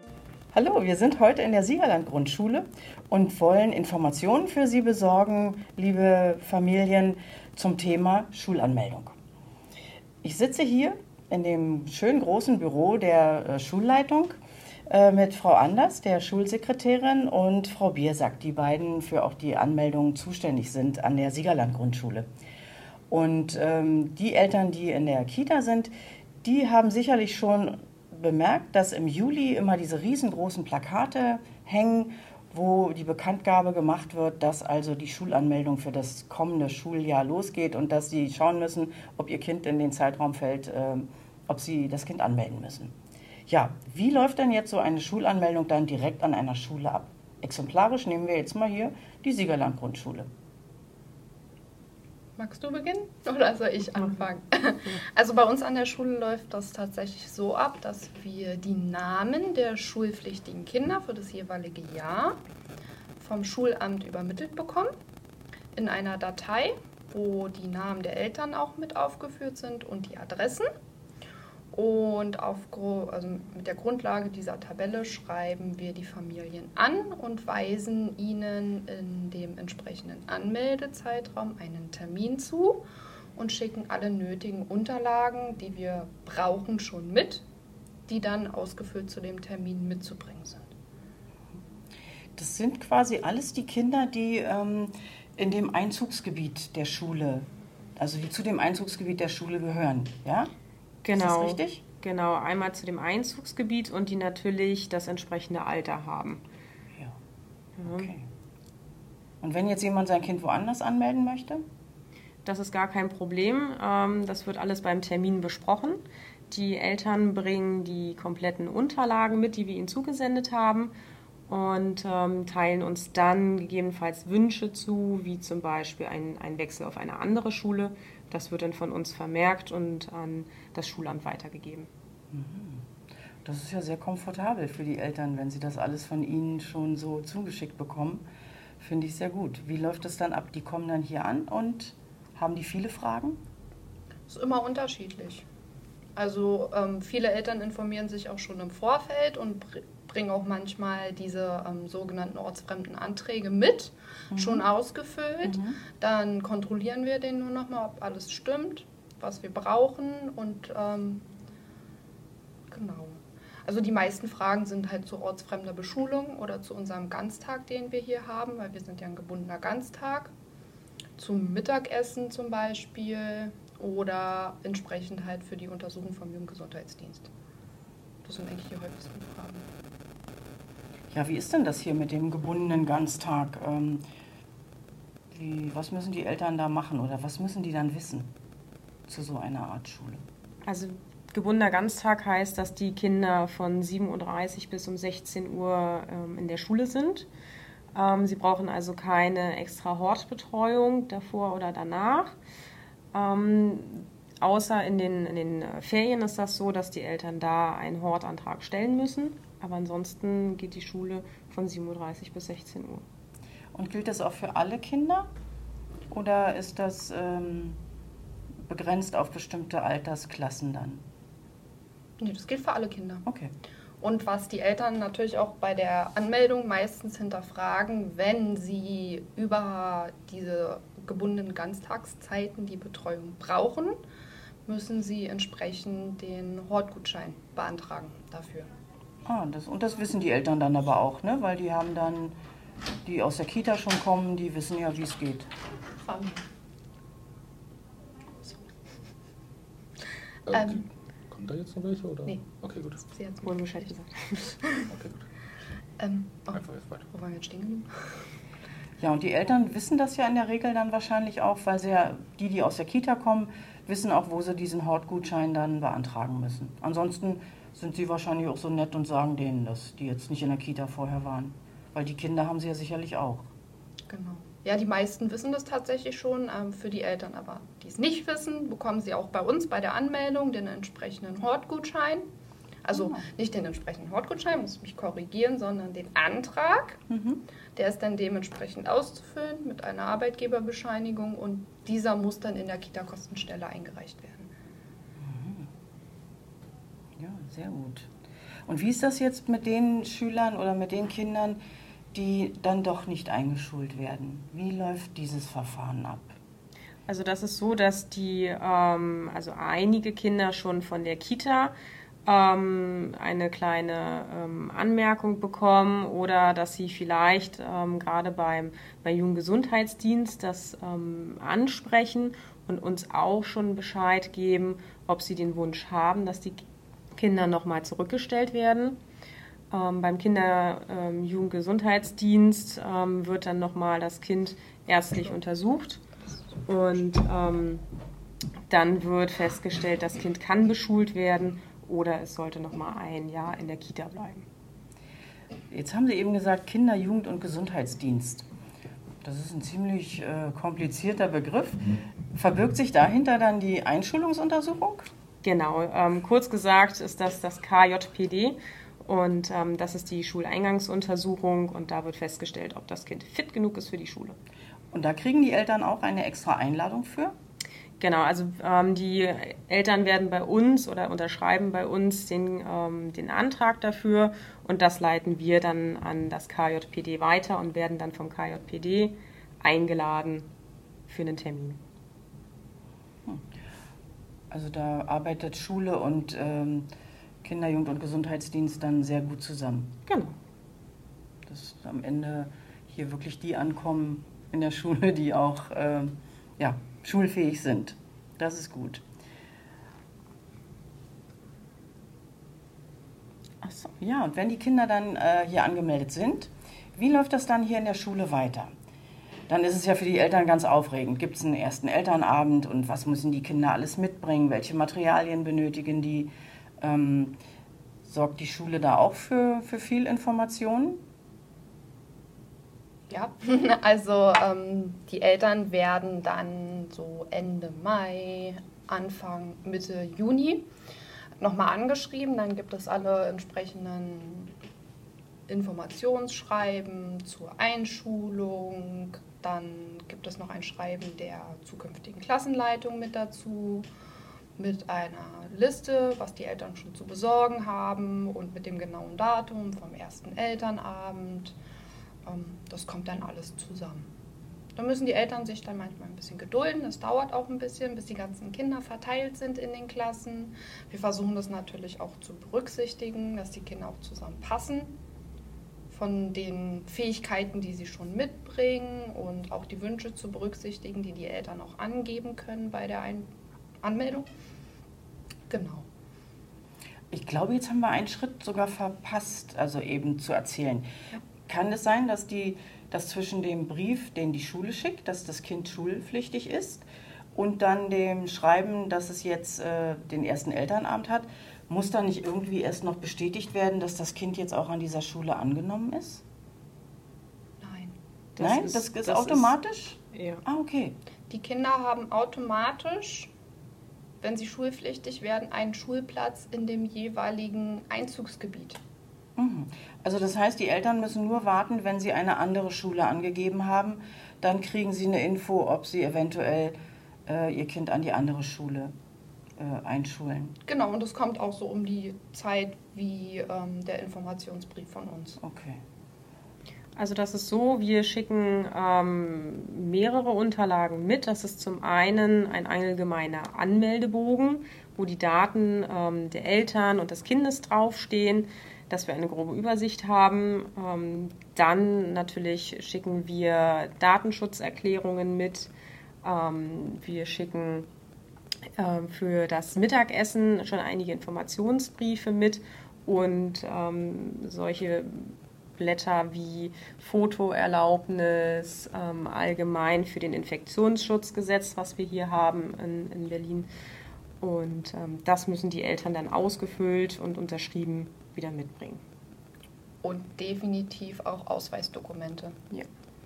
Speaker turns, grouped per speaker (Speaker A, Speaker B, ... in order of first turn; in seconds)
Speaker A: 0.5-9.2, 10.2-22.3, 23.1-43.0, 43.5-50.3, 92.4-97.5, 98.0-100.5, 101.1-101.8, 107.8-108.2, 109.4-111.6, 132.3-132.9, 133.4-138.2, 138.8-143.4, 154.3-154.6, 155.4-155.8, 181.1-184.0, 185.3-188.3, 189.1-190.2, 213.7-215.3, 216.1-217.8, 218.7-221.0, 223.2-223.5, 239.2-242.4, 243.0-245.5, 259.0-273.5, 282.9-283.2, 287.1-287.4, 295.2-295.7, 297.2-298.1, 298.7-301.6, 302.1-306.4, 345.7-348.5, 349.2-355.1, 364.9-367.4, 384.5-386.9, 387.4-389.9, 391.5-399.0, 403.6-408.7, 409.5-417.4, 418.0-421.0, 477.1-480.9, 481.5-496.2, 498.4-500.9, 509.4-516.8, 517.2-518.9, 519.6-520.6, 525.4-525.8
Speaker B: 52.4-62.4, 63.2-64.9, 65.7-70.7, 71.7-82.8, 83.4-87.5, 88.1-90.7, 144.3-145.4, 146.2-161.3, 162.7-170.3, 171.2-177.3, 178.2-179.7, 222.2-223.2, 224.0-234.0, 234.7-238.7, 246.0-246.4, 250.5-250.8, 253.0-253.9, 254.6-254.9, 256.0-258.2, 274.1-282.2, 282.8-287.0, 287.8-294.5, 336.2-336.7, 423.1-430.7, 431.4-434.5, 435.5-443.9, 444.6-451.6, 452.2-454.1, 454.8-465.0, 465.9-473.3, 473.8-474.3, 475.5-475.9, 497.6-497.9, 501.3-503.3, 504.2-508.8, 520.6-525.4, 570.0-572.6
Speaker C: 101.0-106.4, 107.8-108.1, 112.4-120.9, 121.5-131.9, 190.6-197.3, 197.9-202.4, 203.1-213.0, 253.4-254.6, 307.1-311.7, 312.2-326.6, 327.1-329.0, 329.7-336.0, 336.7-337.8, 338.7-344.4, 355.4-364.4, 368.0-380.5, 381.1-381.8, 390.1-390.4, 498.4-499.5, 500.1-500.4, 527.0-545.7, 546.2-547.9, 548.8-563.7, 564.4-569.0
Speaker D: 250.5-253.0, 254.9-255.2, 256.5-257.0